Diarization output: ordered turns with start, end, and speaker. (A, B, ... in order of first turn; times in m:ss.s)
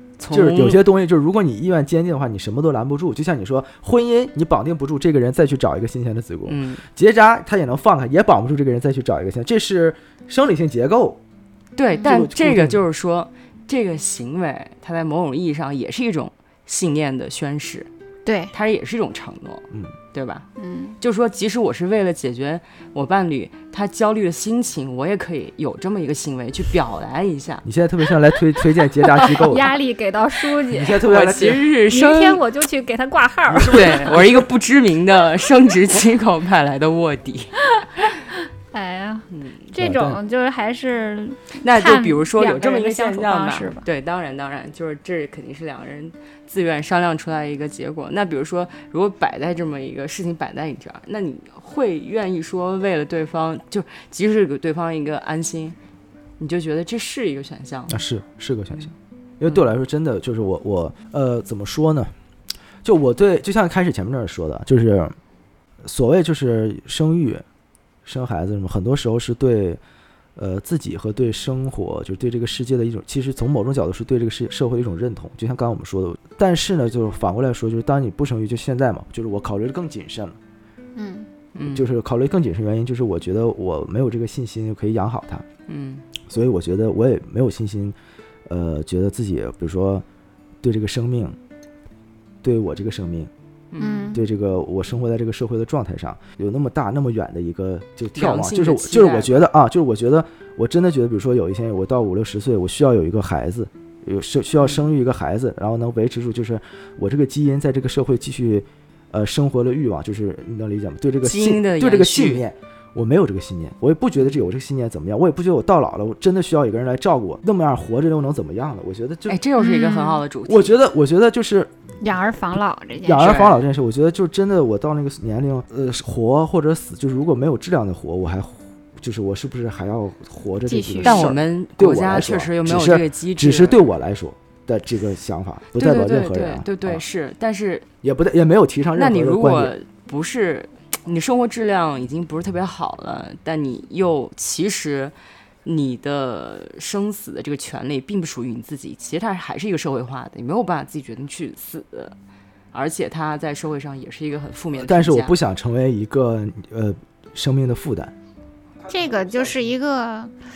0:00.2-0:00.8 A
0:00.3-0:11.2 B
0:06.5-0:06.8 A
0:11.8-0:17.9 A
0:12.0-0:12.8 B
0:18.2-0:18.5 C
0:18.5-0:20.5 A
0:20.6-0:21.0 C
0:21.0-0:27.7 A
0:27.6-0:29.8 B
0:29.1-0:31.0 C
0:30.7-0:31.7 B
0:31.0-0:32.4 A
0:31.9-0:34.2 C
0:33.5-0:34.5 B
0:33.6-0:37.5 A
0:37.8-0:38.1 C
0:38.7-0:43.9 C
0:39.3-0:39.6 A
0:39.8-0:40.2 B
0:41.6-0:55.8 A
0:56.4-0:58.0 A
0:57.9-1:02.1 B
1:02.8-1:05.2 B
1:05.8-1:07.4 B
1:08.1-1:09.8 B
1:10.4-1:20.4 B
1:21.0-1:21.3 C
1:21.6-1:21.9 A
1:21.7-1:25.4 B
1:25.7-1:26.1 A
1:26.3-1:28.0 B
1:28.5-1:30.0 B
1:30.6-1:31.4 B
1:32.4-1:33.3 B
1:33.7-1:34.1 A
1:33.8-1:34.2 C
1:34.1-1:59.4 B
1:38.2-1:39.4 A
1:51.2-1:52.4 A
1:59.3-2:00.8 A
1:59.6-2:00.2 C
2:00.5-2:01.7 B
2:02.0-2:03.4 C
2:03.0-2:17.0 B
2:03.2-2:03.6 A
2:10.7-2:11.3 C
2:11.0-2:13.8 A
2:15.8-2:17.9 A
2:18.0-2:19.8 B
2:19.0-2:25.1 A
2:25.6-2:32.2 A
2:32.7-2:35.4 A
2:34.8-2:38.2 B
2:38.8-2:39.5 B
2:38.9-2:40.3 C